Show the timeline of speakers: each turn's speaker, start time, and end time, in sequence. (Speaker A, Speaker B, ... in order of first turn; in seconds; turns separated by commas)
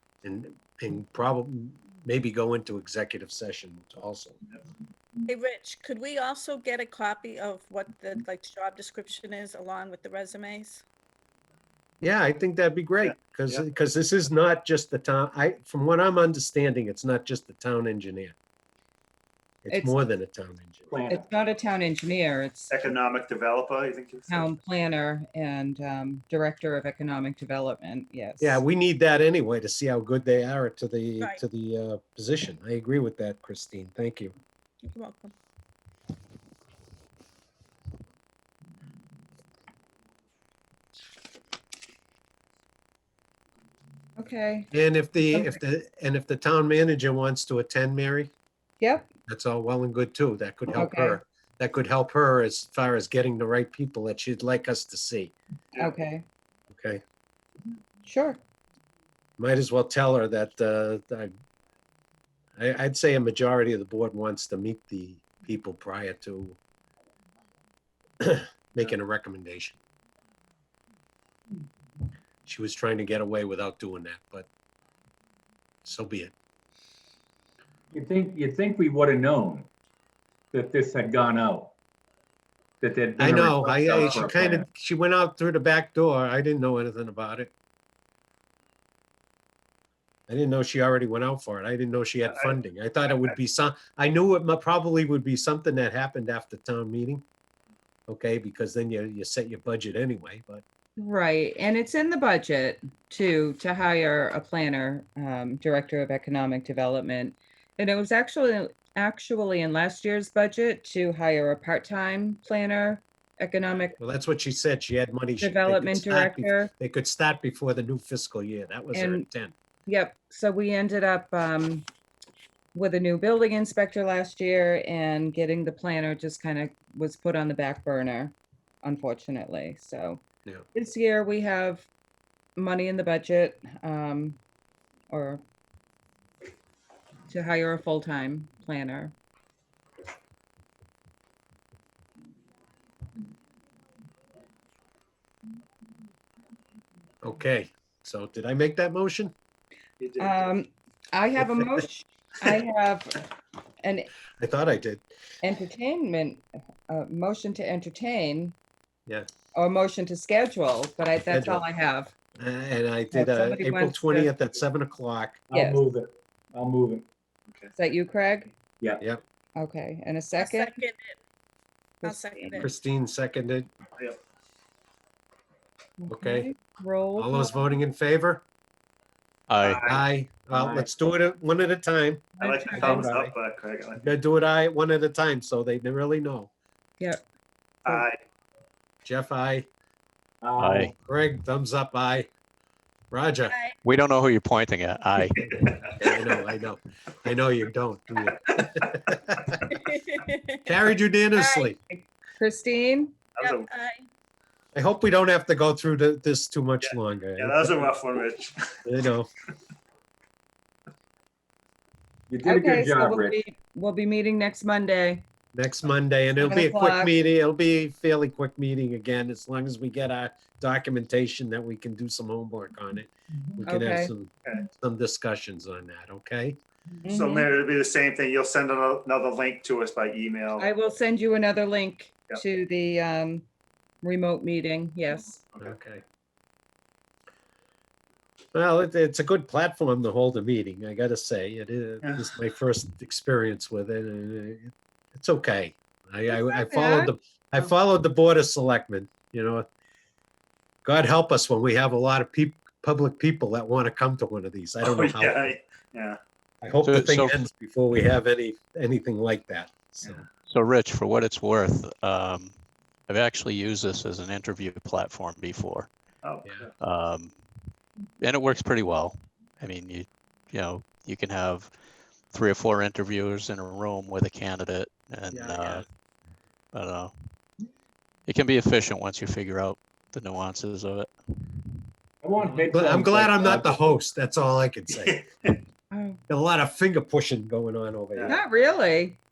Speaker A: 0.2-4.4, Speaker B: 5.3-10.8, Speaker A: 12.0-18.3, Speaker C: 13.0-13.6, Speaker A: 19.6-21.0, Speaker D: 19.7-20.0, Speaker E: 20.9-21.2, Speaker D: 21.1-22.7, Speaker C: 22.7-24.5, Speaker D: 24.3-28.6, Speaker A: 28.4-34.3, Speaker B: 34.8-35.3, Speaker D: 44.2-44.7, Speaker A: 44.7-48.3, Speaker D: 45.3-45.6, Speaker D: 48.8-49.1, Speaker A: 49.3-55.3, Speaker D: 50.7-51.2, Speaker D: 55.8-56.2, Speaker A: 56.7-57.0, Speaker D: 58.0-58.4, Speaker A: 59.4-61.3, Speaker A: 62.6-66.6, Speaker A: 68.2-69.8, Speaker A: 72.4-74.5, Speaker A: 75.8-76.3, Speaker E: 77.9-79.7, Speaker E: 80.5-81.7, Speaker E: 82.8-84.7, Speaker A: 83.2-87.5, Speaker A: 90.3-97.2, Speaker A: 98.1-100.6, Speaker D: 101.0-114.0, Speaker A: 114.0-119.5, Speaker D: 115.4-116.7, Speaker D: 118.9-119.2, Speaker D: 119.8-121.8, Speaker D: 122.7-131.8, Speaker D: 132.6-134.4, Speaker D: 135.1-135.4, Speaker D: 137.3-139.1, Speaker A: 147.2-149.3, Speaker C: 150.0-150.5, Speaker D: 150.2-153.3, Speaker D: 153.8-154.1, Speaker A: 154.4-155.0, Speaker D: 155.4-158.5, Speaker D: 159.5-162.1, Speaker A: 161.3-161.6, Speaker A: 162.4-165.4, Speaker D: 163.1-164.3, Speaker E: 165.5-167.1, Speaker D: 165.5-165.8, Speaker D: 167.7-168.5, Speaker D: 169.6-170.7, Speaker B: 170.4-171.2, Speaker D: 172.0-172.7, Speaker B: 172.0-172.7, Speaker A: 172.6-173.7, Speaker D: 176.0-177.7, Speaker A: 176.1-176.5, Speaker A: 177.2-178.4, Speaker F: 179.5-179.9, Speaker C: 179.6-180.0, Speaker A: 179.8-183.3, Speaker E: 180.5-180.9, Speaker D: 182.4-183.1, Speaker C: 182.4-184.0, Speaker A: 184.0-186.5, Speaker C: 187.8-188.2, Speaker A: 189.0-189.7, Speaker E: 190.4-190.9, Speaker F: 190.6-190.9, Speaker A: 190.9-192.3, Speaker A: 193.1-193.6, Speaker F: 193.8-195.8, Speaker A: 195.9-199.7, Speaker B: 199.7-200.6, Speaker A: 200.6-201.8, Speaker B: 201.3-201.7, Speaker D: 201.9-203.2, Speaker C: 203.4-203.7, Speaker B: 203.4-204.0, Speaker A: 204.7-207.9, Speaker C: 206.8-208.7, Speaker A: 208.8-209.3, Speaker E: 212.3-213.4, Speaker D: 212.4-215.2, Speaker A: 215.5-226.6, Speaker D: 216.4-217.1, Speaker D: 223.6-224.1, Speaker D: 227.0-227.5, Speaker C: 227.1-230.7, Speaker D: 230.6-233.4, Speaker D: 234.0-235.4, Speaker A: 235.6-236.0, Speaker A: 238.5-249.7, Speaker D: 246.3-247.1, Speaker A: 250.8-255.6, Speaker C: 254.8-256.2, Speaker A: 256.6-260.2, Speaker F: 256.8-257.4, Speaker F: 260.5-265.9, Speaker C: 266.2-266.7, Speaker F: 266.8-267.4, Speaker F: 268.2-271.7, Speaker F: 272.3-275.8, Speaker A: 275.3-275.8, Speaker F: 276.7-277.1, Speaker F: 278.3-281.8, Speaker E: 282.2-284.0, Speaker A: 282.7-285.2, Speaker C: 285.1-285.6, Speaker D: 285.9-286.2, Speaker A: 286.3-288.4, Speaker D: 288.2-289.2